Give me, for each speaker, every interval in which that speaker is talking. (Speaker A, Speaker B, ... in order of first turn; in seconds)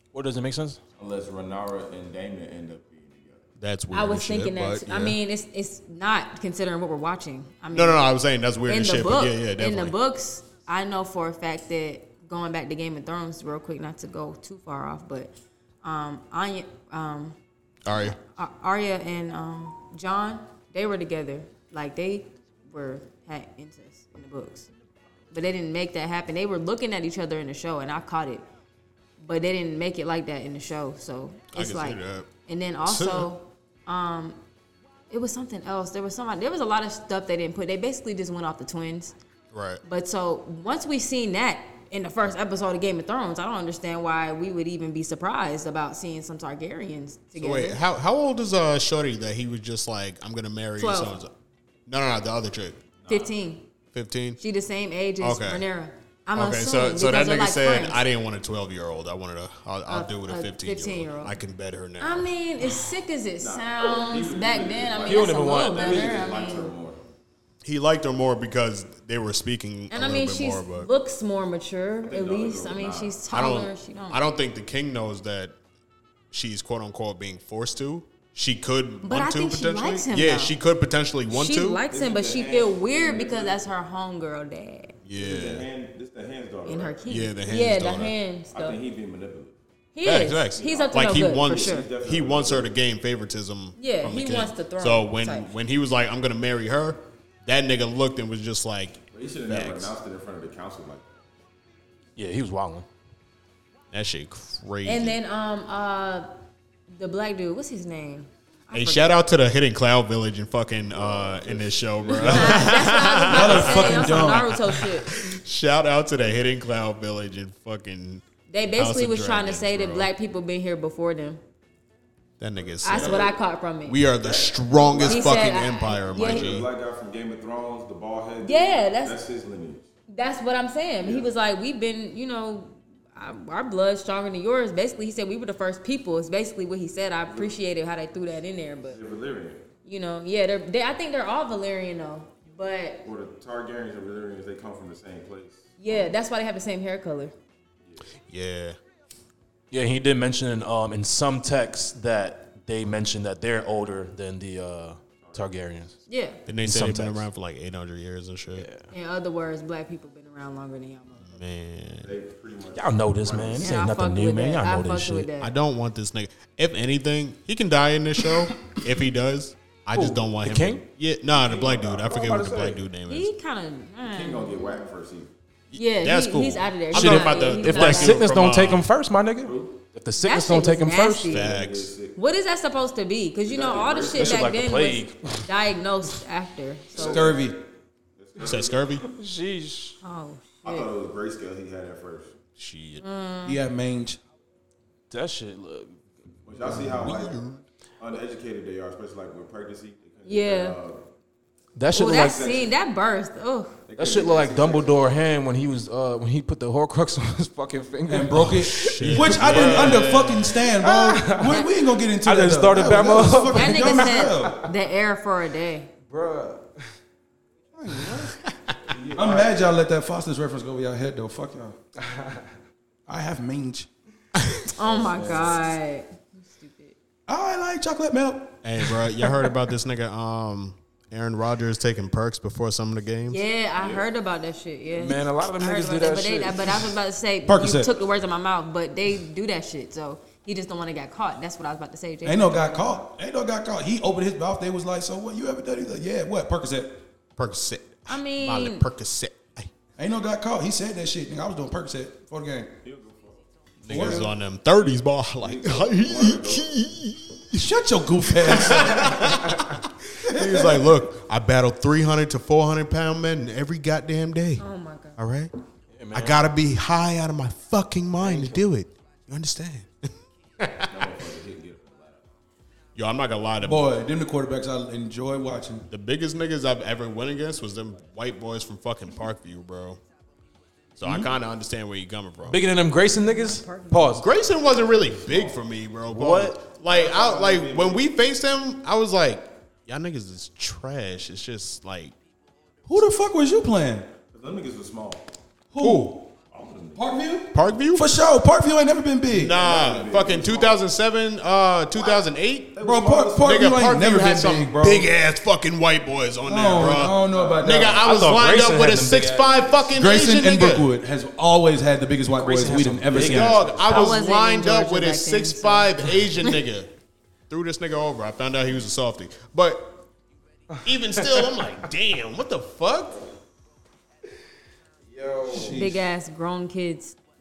Speaker A: 0.1-0.8, 65.0-66.2, 102.2-102.8, 149.7-155.9, 156.6-157.2, 158.6-158.9, 162.7-165.3, 169.9-170.8, 172.1-172.8, 176.9-181.4, 184.1-185.5, 189.0-190.0, 195.1-196.0, 201.8-202.4, 204.0-214.7, 216.1-216.7, 218.9-219.5, 222.0-222.4, 225.0-225.6, 234.9-236.9, 265.9-266.4, 268.2-268.6, 282.4-284.2, 286.1-286.6, 295.8-296.2, 308.0-309.7, 312.3-313.9, 321.2-321.6, 325.1-325.9
Speaker B: 1.0-3.5, 53.0-53.3, 63.4-67.0, 72.0-73.2, 81.9-83.6, 85.2-87.1, 88.5-89.6, 90.6-92.8, 99.1-101.1, 110.9-112.8, 122.7-123.4, 124.1-129.9, 131.0-131.3, 137.3-137.5, 138.9-139.6, 143.0-146.0, 155.2-155.5, 162.0-163.8, 171.3-172.6, 174.0-175.3, 179.4-179.8, 181.3-182.2, 183.4-184.5, 186.9-187.4, 188.2-188.9, 190.6-192.3, 196.4-197.4, 198.0-201.0, 202.0-202.7, 203.9-205.1, 218.9-219.3, 224.8-225.5, 233.8-234.0, 252.8-253.4, 254.8-256.8, 270.9-272.3, 284.7-285.6, 286.8-288.1, 294.3-295.2, 296.5-297.1, 299.5-300.8, 301.9-303.6, 307.2-307.7
Speaker C: 3.6-5.2, 7.7-9.9, 17.9-18.1, 31.5-32.3, 32.8-33.3, 39.5-39.8, 47.4-51.3, 51.9-52.8, 53.9-54.4, 55.2-55.6, 56.3-62.3, 67.6-70.9, 73.3-75.5, 76.3-81.8, 85.0-85.7, 87.1-88.1, 90.0-99.9, 103.9-105.2, 108.7-118.2, 118.7-120.1, 122.4-123.3, 123.8-126.7, 148.3-148.8, 156.5-158.7, 161.2-162.1, 165.4-173.3, 175.7-178.8, 181.3-181.9, 188.4-189.0, 192.6-193.0, 197.0-197.6, 208.3-210.6, 218.5-218.8, 224.4-224.7, 228.6-233.4, 247.4-249.7, 253.8-257.6, 258.2-264.6, 265.2-265.5, 266.1-271.0, 272.9-273.9, 275.9-280.0, 281.0-282.6, 284.1-292.1, 297.5-298.1, 299.3-302.8, 303.4-310.9, 313.1-316.9, 317.5-320.0, 320.8-323.2
Speaker D: 3.9-8.1, 8.7-17.4, 18.0-24.7, 25.3-28.4, 29.2-34.4, 35.1-39.1, 39.8-47.8, 50.8-51.2, 53.1-53.6, 54.4-58.0, 59.9-61.4, 62.0-66.7, 69.9-74.2, 79.0-80.5, 81.3-85.0, 86.7-88.8, 89.9-91.9, 93.8-95.5, 104.8-106.3, 106.9-109.1, 112.2-115.1, 118.5-121.4, 122.8-124.0, 125.0-126.5, 128.4-129.2, 130.1-139.0, 139.8-143.0, 145.8-147.3, 156.1-156.4, 158.9-161.3, 163.6-165.5, 173.1-174.8, 175.7-178.3, 180.2-181.5, 182.1-187.2, 190.0-190.9, 193.0-193.6, 200.2-200.8, 201.9-203.8, 213.5-215.9, 224.7-226.9, 233.3-243.0, 248.1-248.8, 253.9-254.2, 264.6-265.2, 283.2-284.2, 313.9-316.5, 325.6-327.2
Speaker E: 112.1-112.6, 113.2-114.5, 186.9-187.6, 193.4-194.2, 196.7-197.0, 208.1-214.6, 217.7-218.3, 219.1-221.8, 223.1-223.9, 227.3-228.6, 237.4-237.9, 242.2-247.0, 250.0-252.7, 253.8-254.3, 257.5-259.3, 260.2-260.9, 273.6-275.9, 292.9-294.1, 295.7-296.3, 296.9-299.6, 302.8-305.1, 306.4-308.1, 309.9-313.7, 325.5-326.0